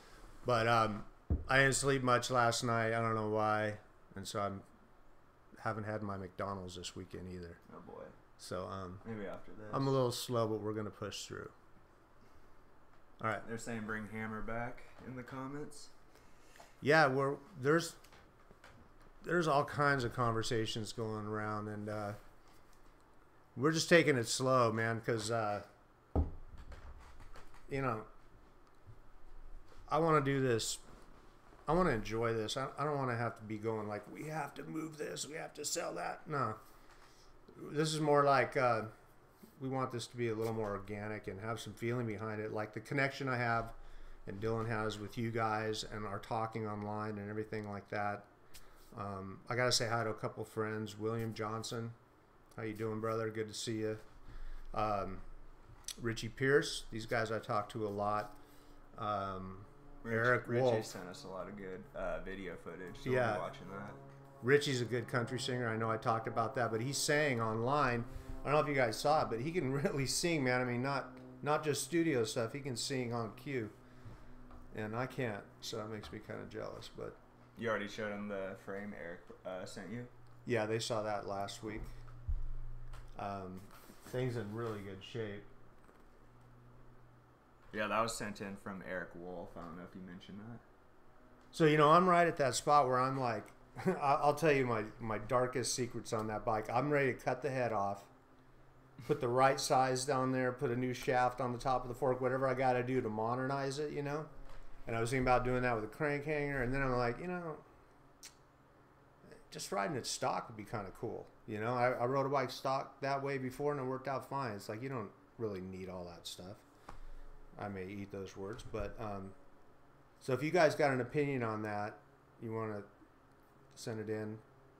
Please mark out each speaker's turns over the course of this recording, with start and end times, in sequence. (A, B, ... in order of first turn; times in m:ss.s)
0:00.4-0:04.6 A
0:05.6-0:07.6 A
0:07.7-0:08.2 B
0:08.4-0:09.0 A
0:09.0-0:09.9 B
0:09.7-0:11.5 A
0:13.2-0:13.4 A
0:13.4-0:15.9 B
0:16.8-0:18.0 A
0:19.2-0:22.2 A
0:23.5-0:25.7 A
0:27.7-0:28.1 A
0:29.9-0:30.8 A
0:31.6-0:36.6 A
0:37.5-0:38.9 A
0:39.6-0:48.3 A
0:48.9-0:52.0 A
0:52.5-0:54.0 A
0:54.7-0:55.2 A
0:56.0-0:58.4 A
0:58.9-1:00.9 A
1:00.0-1:04.0 B
1:03.0-1:03.4 A
1:04.4-1:13.7 A
1:14.7-1:17.2 A
1:17.6-1:20.1 B
1:20.4-1:21.9 A
1:23.1-1:25.5 A
1:27.7-1:30.6 B
1:31.5-1:38.1 A
1:39.0-1:44.3 A
1:44.8-1:47.6 A
1:49.2-1:56.6 A
1:57.6-1:59.4 A
2:00.2-2:02.9 A
2:03.7-2:04.4 A